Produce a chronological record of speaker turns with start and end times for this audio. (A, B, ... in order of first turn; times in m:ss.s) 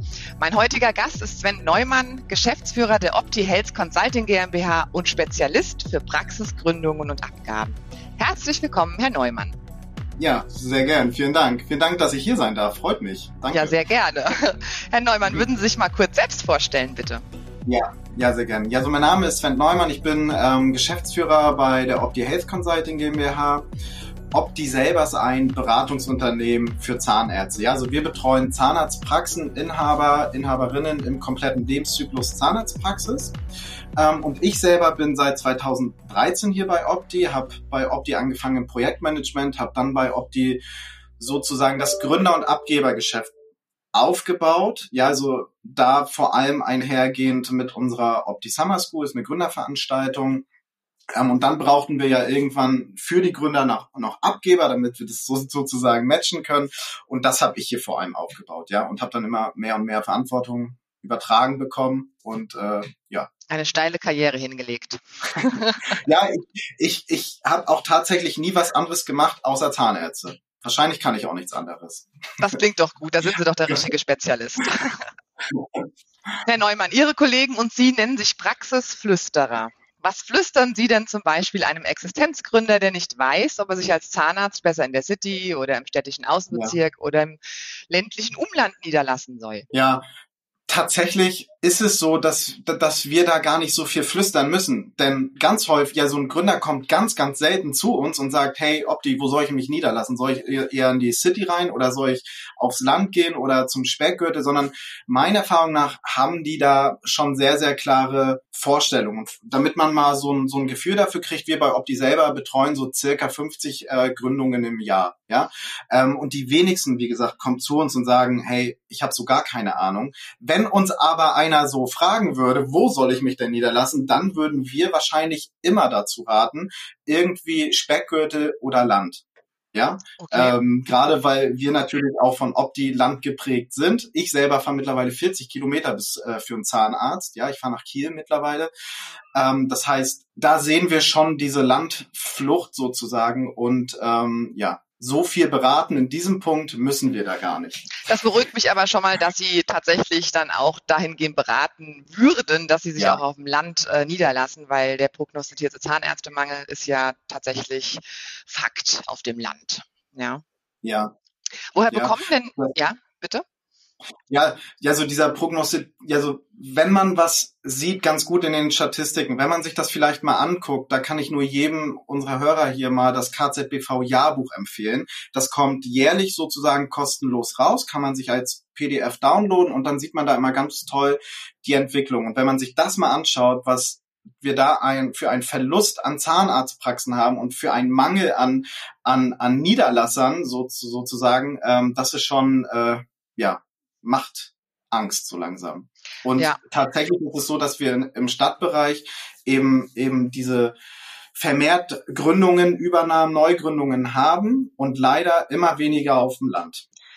0:00.4-0:09.6 A
0:10.2-0:13.8 B
0:13.5-0:17.2 A
0:17.6-0:23.6 B
0:24.3-0:33.3 B
0:34.0-0:40.6 B
0:41.2-0:43.3 B
0:43.9-0:50.4 B
0:51.1-1:03.3 B
1:03.5-1:06.0 A
1:05.9-1:12.1 B
1:12.4-1:15.0 A
1:15.5-1:15.8 B
1:16.4-1:27.4 A
1:27.9-1:29.6 A
1:29.7-1:30.0 B
1:30.7-2:09.2 B
2:09.7-2:18.7 B
2:10.2-2:10.6 A
2:19.3-2:27.9 B
2:28.0-2:40.4 A
2:40.8-2:41.1 B
2:41.7-2:43.4 A
2:41.9-2:42.7 B
2:44.3-3:20.7 B
3:21.3-3:26.8 B